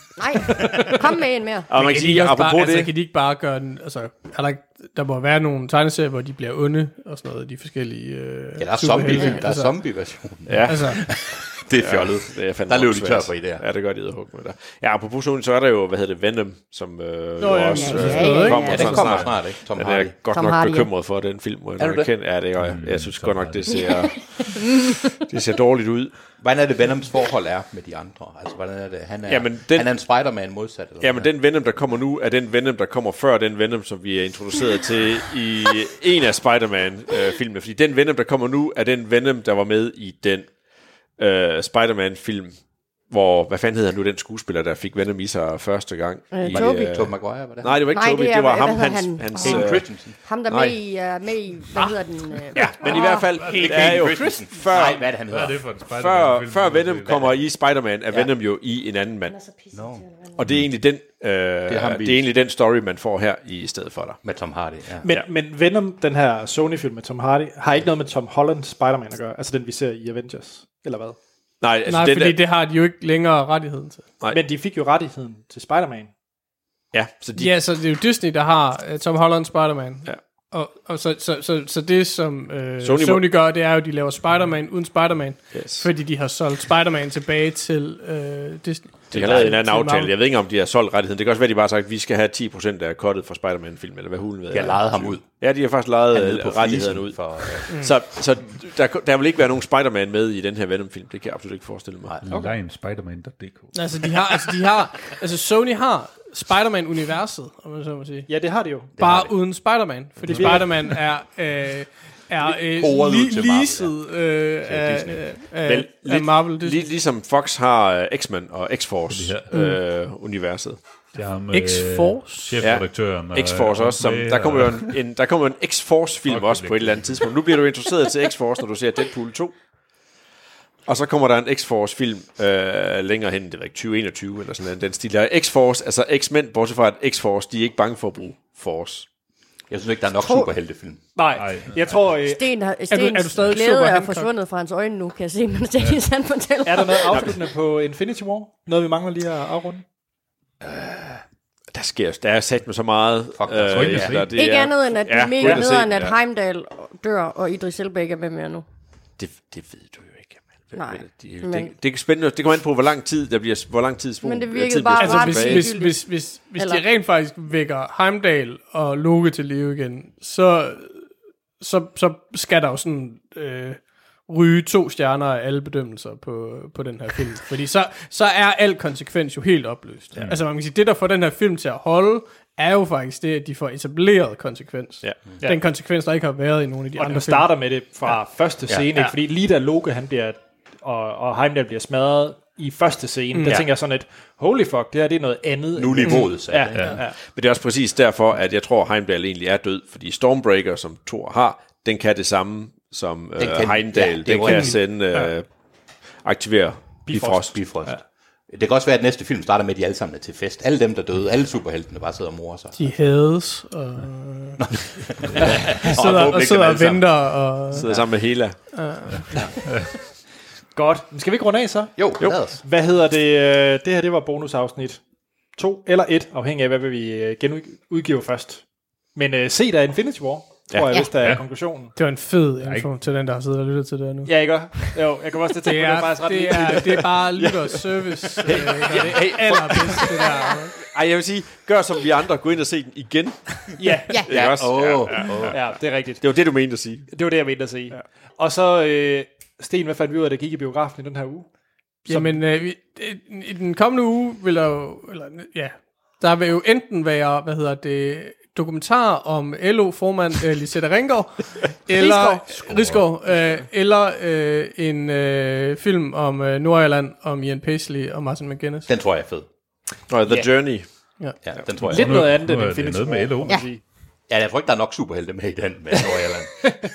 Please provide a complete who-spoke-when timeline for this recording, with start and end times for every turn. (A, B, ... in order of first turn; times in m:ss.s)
0:00.2-0:01.7 A
0:01.7-0:02.9 B
0:01.7-0:09.8 C
0:08.6-0:13.6 D
0:10.5-0:11.2 B
0:10.6-0:11.0 C
0:11.8-0:26.2 B
0:17.4-0:19.0 C
0:17.7-0:19.1 A
0:18.4-0:20.1 D
0:20.3-0:20.9 A
0:21.8-0:22.1 D
0:22.6-0:23.9 E
0:23.8-0:25.0 A
0:26.4-0:31.3 D
0:29.3-0:30.1 B
0:31.0-0:40.5 B
0:41.2-0:42.6 B
0:43.1-0:50.8 B
0:46.3-0:47.0 A
0:46.5-0:47.8 D
0:47.9-0:53.3 A
0:49.4-0:50.1 D
0:52.5-0:55.1 B
0:52.6-0:53.9 C
0:53.4-0:55.6 D
0:55.3-0:57.4 E
0:55.9-0:59.4 B
0:59.3-1:00.4 A
0:59.7-1:00.0 D
1:00.4-1:04.2 B
1:01.7-1:02.3 D
1:04.2-1:05.1 D
1:05.0-1:11.2 F
1:11.6-1:12.4 B
1:11.9-1:14.0 C
1:14.3-1:16.1 F
1:16.9-1:17.6 B
1:17.4-1:30.1 C
1:22.8-1:23.3 B
1:25.5-1:25.9 B
1:29.1-1:29.6 D
1:29.1-1:42.2 B
1:34.5-1:35.3 D
1:36.1-1:37.7 D
1:42.1-1:42.6 D
1:42.2-1:43.8 E
1:43.7-1:56.9 C
1:48.3-1:48.9 F
1:49.0-1:49.3 D
1:50.3-1:50.9 F
1:52.4-1:54.0 D
1:54.6-1:55.2 D
1:55.5-2:00.8 B
1:59.1-1:59.5 E
1:59.5-1:59.8 C
2:01.2-2:05.0 E
2:01.5-2:02.7 C
2:02.6-2:09.6 B
2:06.3-2:07.3 E
2:10.9-2:19.1 B
2:19.7-2:21.0 D
2:20.2-2:20.5 A
2:21.2-2:22.5 F
2:21.4-2:22.0 E
2:22.2-2:27.4 A
2:22.9-2:24.3 C
2:26.6-2:29.8 F
2:30.6-2:31.2 D
2:31.7-2:36.2 B
2:33.4-2:34.2 D
2:33.7-2:34.4 E
2:34.3-2:38.6 A
2:35.4-2:35.6 F
2:39.2-2:45.8 B
2:40.7-2:41.7 A
2:44.2-2:46.8 A
2:45.0-3:07.5 C
3:05.0-3:05.6 F
3:07.0-3:17.2 F
3:13.3-3:13.6 C
3:15.8-3:17.0 D
3:17.1-3:25.5 B
3:23.4-3:24.9 D
3:26.2-3:27.6 B
3:27.1-3:28.0 F
3:27.5-3:32.8 D
3:32.8-3:34.6 C
3:34.6-3:37.1 D
3:35.4-3:35.7 F
3:35.7-3:39.3 C
3:37.7-3:38.9 B
3:37.8-3:38.2 D
3:40.7-3:45.0 F
3:42.0-3:42.6 D
3:45.5-3:48.6 F
3:49.2-3:51.9 F
3:50.7-3:51.0 B
3:52.0-3:54.9 C
3:52.6-3:52.9 E
3:54.2-3:57.2 F
3:55.6-4:00.7 C
3:57.4-4:07.1 B
3:58.4-4:00.2 F
4:03.8-4:04.3 F
4:04.3-4:05.6 D
4:05.2-4:06.4 F
4:07.1-4:11.5 F
4:12.1-4:28.9 C
4:12.1-4:12.4 F
4:21.9-4:22.5 A
4:22.7-4:23.0 E
4:28.9-4:29.5 D
4:30.1-4:30.9 B
4:31.4-4:32.3 D
4:31.8-4:33.8 F
4:31.8-4:33.6 E
4:34.3-4:36.7 D